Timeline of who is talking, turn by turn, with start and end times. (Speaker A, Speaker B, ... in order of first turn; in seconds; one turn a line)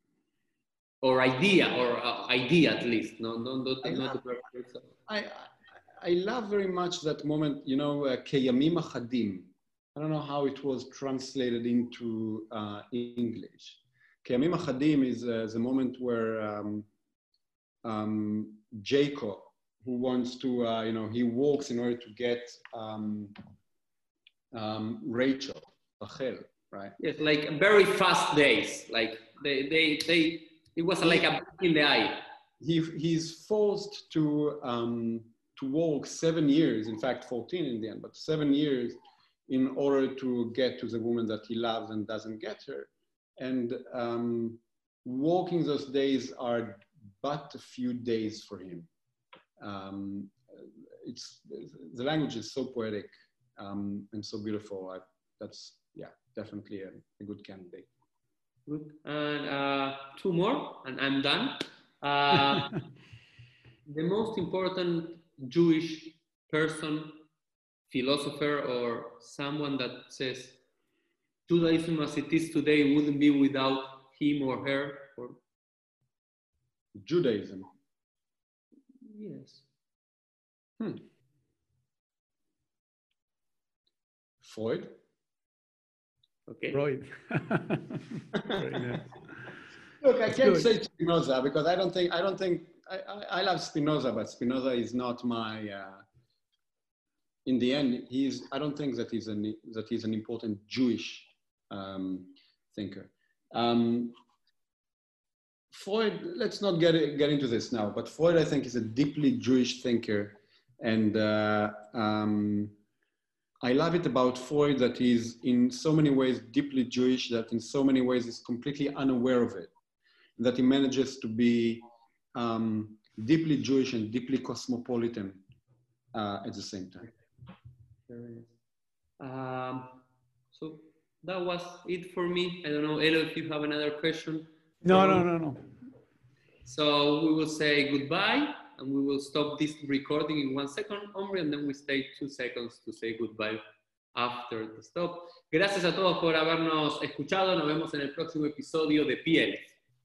Speaker A: 1.0-4.9
Speaker B: 3.8-4.2
Speaker B: 5.1-16.9
Speaker B: 17.8-23.4
Speaker B: 24.5-26.9
Speaker A: 27.0-32.2
Speaker B: 32.6-39.0
Speaker B: 39.5-48.9
Speaker B: 49.6-57.9
Speaker A: 58.7-62.8
Speaker A: 63.9-67.2
Speaker A: 67.9-70.6
Speaker A: 71.5-75.4
Speaker B: 77.0-77.7
Speaker A: 79.0-79.7
Speaker B: 80.8-81.0
Speaker B: 84.4-84.9
Speaker A: 86.5-86.8
Speaker C: 86.7-89.2
Speaker B: 88.4-89.0
Speaker B: 90.0-96.0
Speaker C: 90.3-90.6
Speaker B: 97.5-104.1
Speaker B: 105.7-112.7
Speaker B: 113.6-119.7
Speaker B: 120.4-121.8
Speaker B: 122.3-125.4
Speaker B: 126.1-127.1
Speaker A: 128.1-128.5
Speaker A: 129.2-130.0
Speaker A: 130.5-135.2
Speaker C: 134.8-135.6
Speaker A: 136.6-143.6
Speaker A: 144.1-149.7